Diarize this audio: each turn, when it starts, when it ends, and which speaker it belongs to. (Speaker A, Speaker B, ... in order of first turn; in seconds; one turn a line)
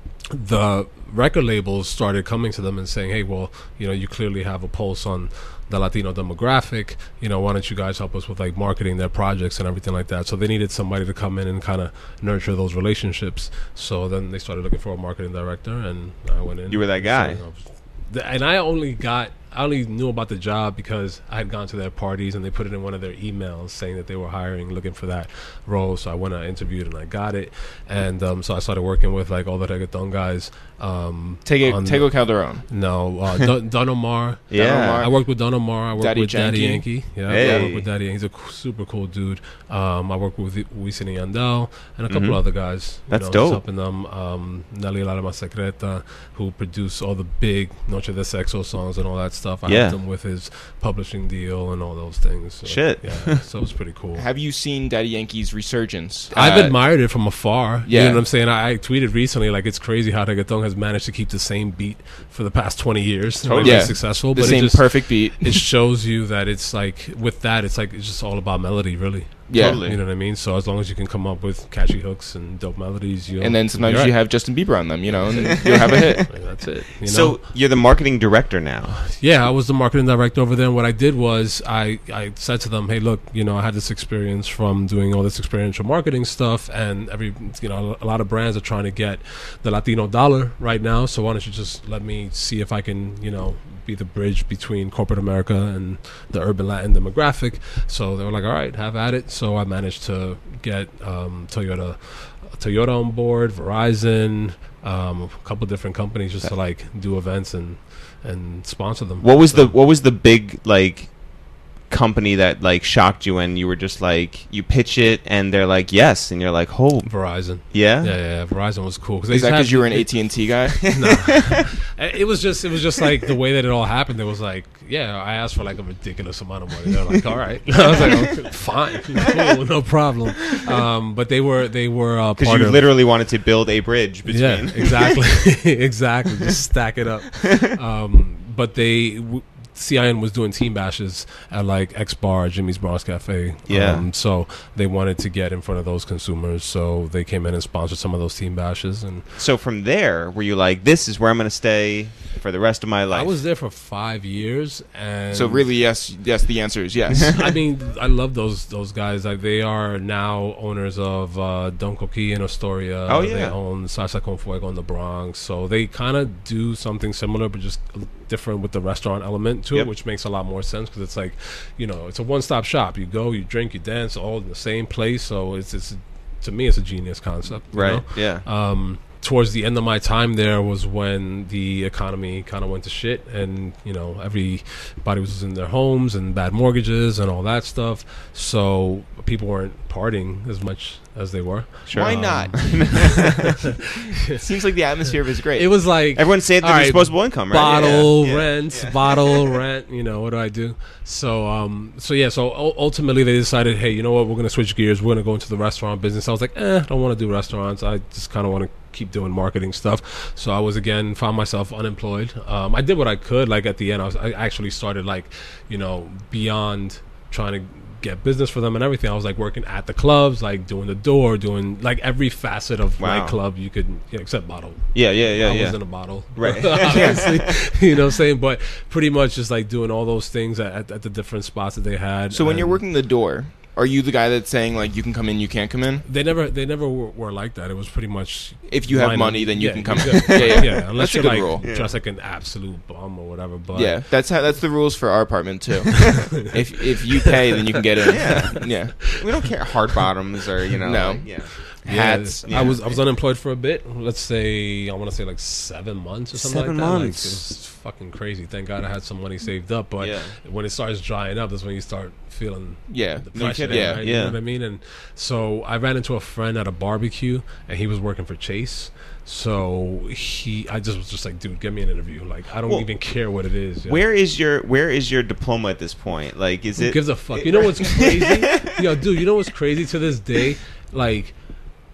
Speaker A: 0.3-54.2
Speaker B: 16.7-17.4
Speaker C: 31.4-32.6
Speaker B: 34.5-35.0
Speaker C: 34.5-35.1
Speaker C: 36.0-37.7
Speaker B: 37.3-37.9
Speaker B: 42.1-42.4
Speaker B: 43.1-43.6
Speaker B: 49.7-50.0
Speaker B: 52.6-53.4
Speaker C: 54.1-56.8
Speaker A: 56.3-74.2
Speaker C: 57.9-58.2
Speaker B: 63.4-63.9
Speaker C: 63.6-65.6
Speaker C: 69.5-69.8
Speaker B: 69.5-70.0
Speaker C: 73.4-76.3
Speaker A: 75.1-75.6
Speaker B: 75.3-76.3
Speaker A: 76.3-77.4
Speaker B: 77.0-79.0
Speaker A: 79.1-109.7
Speaker B: 109.2-111.1
Speaker B: 111.9-117.1
Speaker A: 117.0-120.1
Speaker B: 117.7-118.1
Speaker C: 119.3-120.8
Speaker A: 120.8-132.9
Speaker B: 120.8-121.7
Speaker B: 126.9-127.2
Speaker C: 127.9-128.3
Speaker B: 132.4-135.2
Speaker A: 134.2-149.2
Speaker B: 137.3-137.8
Speaker B: 143.7-144.0
Speaker B: 149.3-153.3
Speaker A: 153.1-155.7
Speaker C: 155.3-157.4
Speaker A: 157.2-193.7
Speaker B: 163.1-163.5
Speaker B: 177.7-178.4
Speaker B: 191.9-193.6
Speaker C: 191.9-193.1
Speaker C: 194.3-195.7
Speaker A: 195.5-232.8
Speaker B: 196.1-199.4
Speaker B: 223.0-223.4
Speaker B: 224.9-227.6
Speaker C: 226.8-227.2
Speaker C: 232.3-236.0
Speaker A: 236.0-244.0
Speaker C: 238.7-241.6
Speaker B: 240.3-240.7
Speaker B: 241.6-241.9
Speaker C: 243.7-248.9
Speaker B: 248.1-251.5
Speaker C: 250.8-251.3
Speaker C: 251.8-252.7
Speaker A: 251.8-274.0
Speaker B: 252.4-252.9
Speaker B: 256.3-257.4
Speaker B: 260.0-260.3
Speaker C: 262.9-264.0
Speaker B: 263.3-264.3
Speaker B: 273.9-278.9
Speaker A: 276.8-281.3